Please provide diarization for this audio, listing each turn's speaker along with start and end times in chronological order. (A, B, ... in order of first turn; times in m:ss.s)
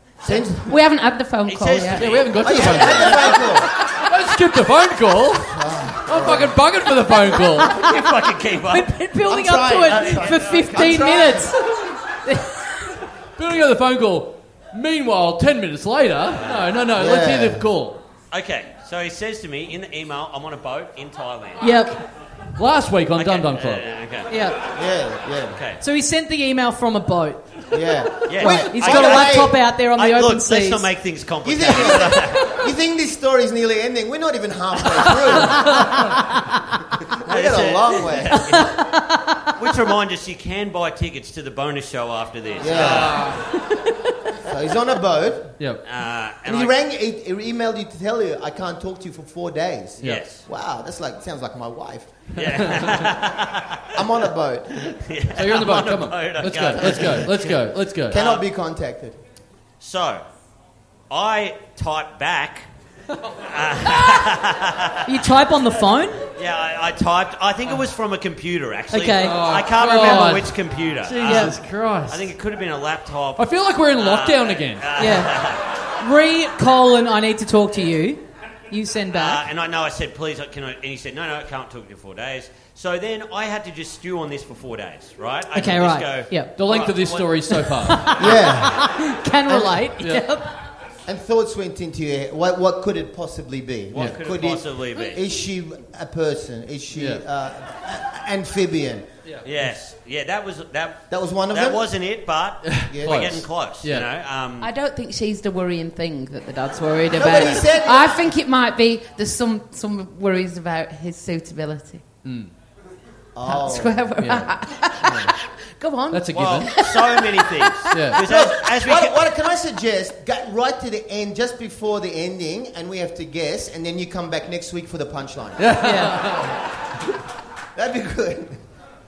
0:00.2-0:00.7 A
0:00.2-0:02.2 B
0:01.4-0:03.3 C
0:01.9-0:07.8 D
0:02.4-0:03.7 A
0:05.4-0:06.6 A
0:07.7-0:08.9 C
0:07.7-0:08.1 E
0:08.7-0:11.6 E
0:09.3-0:11.5 A
0:09.8-0:11.1 C
0:12.2-0:13.0 E
0:13.4-0:18.0 D
0:16.9-0:17.7 A
0:18.3-0:21.8 C
0:21.6-0:22.0 E
0:22.6-0:23.8 D
0:23.1-0:24.3 C
0:24.3-0:24.6 E
0:24.7-0:25.6 A
0:25.5-0:25.8 C
0:25.8-0:27.7 E
0:27.7-0:29.6 A
0:28.2-0:32.6 C
0:28.4-0:30.9 E
0:28.4-0:28.7 D
0:31.4-0:36.2 A
0:35.8-0:36.4 E
0:37.0-0:38.5 A
0:37.3-0:38.8 C
0:38.4-0:39.5 E
0:39.6-0:43.4 C
0:42.6-0:43.2 A
0:42.7-0:43.4 D
0:43.4-0:44.1 E
0:44.4-0:45.6 A
0:45.8-0:46.7 C
0:46.4-0:52.3 A
0:50.0-0:50.4 C
0:52.3-0:54.0 C
0:52.4-0:53.0 D
0:53.9-0:55.0 A
0:54.8-0:57.5 C
0:55.4-0:58.2 D
0:56.8-0:57.2 A
0:58.1-0:58.5 C
0:58.1-0:59.2 A
0:59.8-1:00.2 C
1:01.1-1:02.7 C
1:03.4-1:05.2 C
1:05.0-1:06.2 E
1:06.4-1:15.6 C
1:08.9-1:09.4 E
1:09.2-1:12.3 D
1:11.2-1:11.5 E
1:13.4-1:14.9 D
1:15.0-1:15.4 E
1:16.0-1:19.4 E
1:19.1-1:27.4 C
1:25.5-1:26.5 E
1:26.5-1:28.2 D
1:27.5-1:30.5 E
1:28.2-1:28.9 A
1:28.2-1:28.6 C
1:29.5-1:29.8 A
1:31.0-1:39.0 A
1:33.9-1:35.2 C
1:36.9-1:37.2 D
1:39.2-1:39.7 D
1:39.4-1:44.7 C
1:41.1-1:41.9 A
1:42.6-1:44.1 D
1:42.8-1:43.4 A
1:44.6-1:52.0 B
1:47.1-1:48.3 A
1:52.2-1:52.5 D
1:53.3-1:54.1 A
1:53.4-1:58.1 B
1:54.2-1:54.5 D
1:55.0-1:55.3 A
1:56.1-1:56.7 D
1:56.3-1:59.2 C
1:57.9-1:58.2 D
1:58.2-2:05.8 A
2:05.6-2:06.6 D
2:05.8-2:06.2 E
2:07.7-2:08.6 A